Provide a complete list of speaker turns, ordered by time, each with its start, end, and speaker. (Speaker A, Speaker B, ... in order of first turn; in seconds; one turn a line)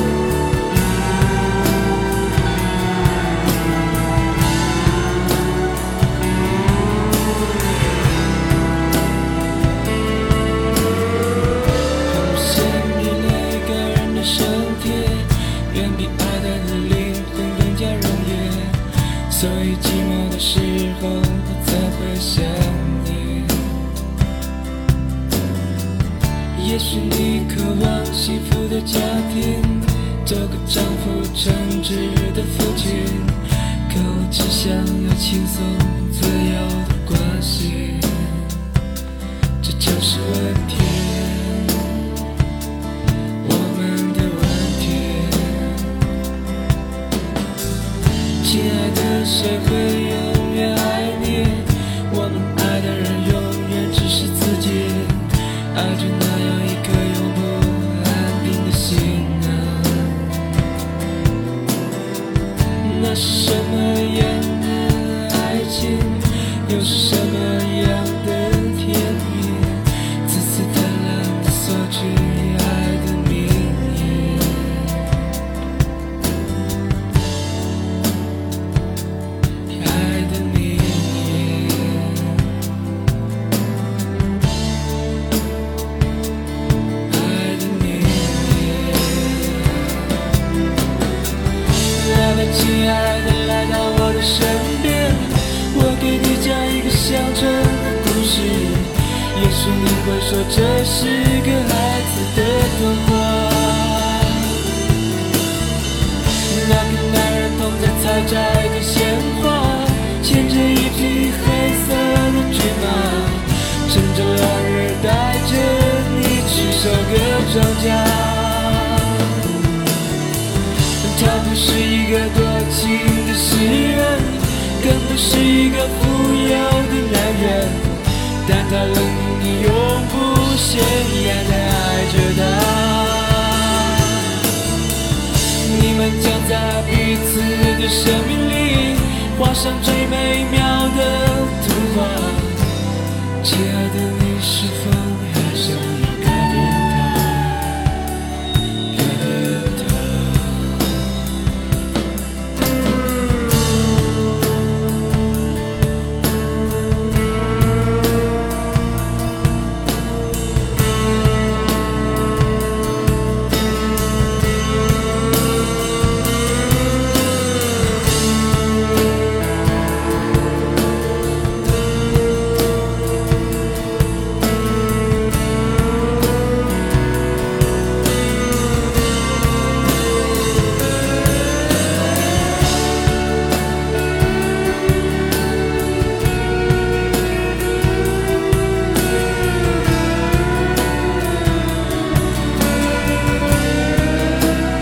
Speaker A: 12.1-23.8
Speaker A: 26.5-38.6
Speaker A: 39.6-42.1
Speaker A: 43.4-46.0
Speaker A: 48.4-60.5
Speaker A: 62.8-75.2
Speaker A: 79.7-82.5
Speaker A: 87.1-90.2
Speaker A: 91.9-104.6
Speaker A: 106.5-119.5
Speaker A: 121.0-134.3
Speaker A: 135.6-142.8
Speaker A: 143.4-147.8
Speaker A: 148.9-151.0